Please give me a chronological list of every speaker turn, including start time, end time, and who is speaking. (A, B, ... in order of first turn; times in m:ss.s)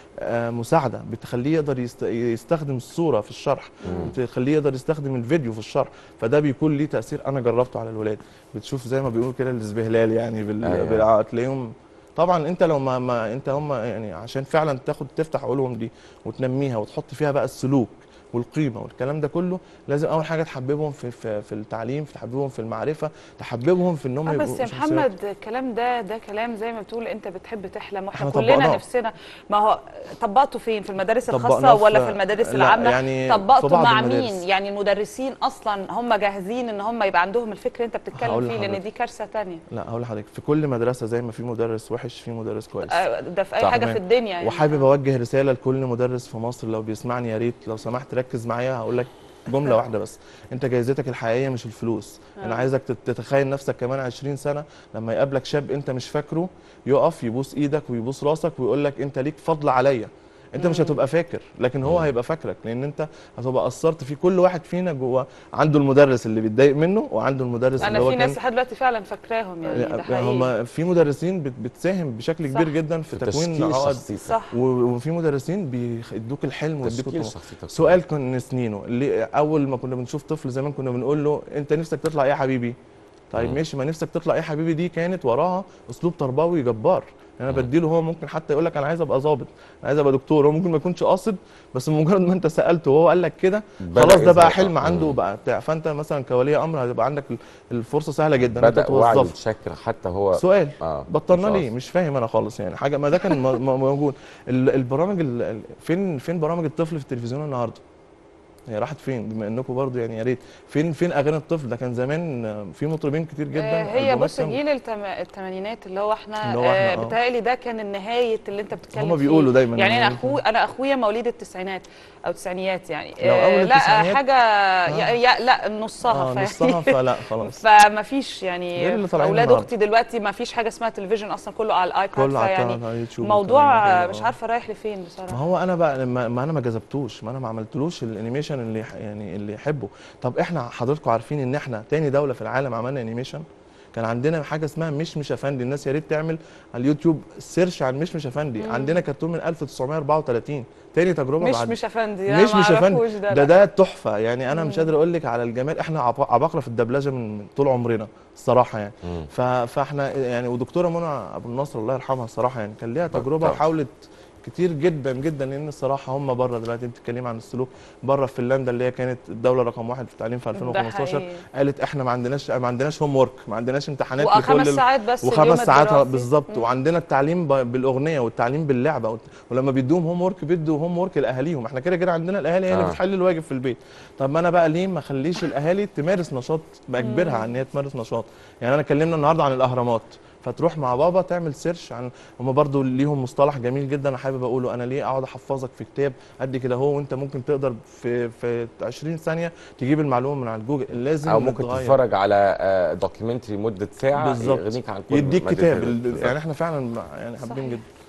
0:00.2-0:25.1 A
0:03.8-0:04.2 B
0:03.9-0:04.2 C
0:10.6-0:11.1 C
0:24.2-0:39.6 B
0:28.1-0:28.8 A
0:31.3-0:34.4 A
0:38.1-0:38.8 A
0:39.7-0:43.0 A
0:42.9-0:44.9 B
0:43.6-1:08.4 A
0:52.4-0:52.7 B
1:00.6-1:01.0 B
1:01.8-1:02.1 C
1:07.8-1:08.1 C
1:07.8-1:10.5 B
1:09.6-1:22.8 A
1:12.5-1:12.7 B
1:13.1-1:14.3 C
1:14.3-1:14.6 B
1:16.8-1:18.0 C
1:23.3-1:39.4 A
1:33.8-1:35.2 C
1:38.4-1:41.7 C
1:40.4-1:47.8 A
1:48.7-1:54.6 A
1:53.6-2:15.4 B
1:56.4-1:57.2 A
1:58.9-2:00.4 A
2:03.2-2:04.2 A
2:04.9-2:05.2 A
2:06.0-2:07.6 A
2:08.8-2:09.7 A
2:12.1-2:14.3 A
2:15.3-2:23.4 A
2:24.0-3:22.0 A
2:28.6-2:29.0 B
2:31.4-2:33.7 B
2:34.5-2:34.9 B
2:39.0-2:39.3 C
2:43.1-2:43.6 C
2:50.6-2:51.4 B
2:54.2-2:56.7 B
3:02.7-3:03.0 C
3:07.0-3:07.5 B
3:21.2-3:26.4 C
3:24.1-3:27.8 A
3:27.4-3:27.8 B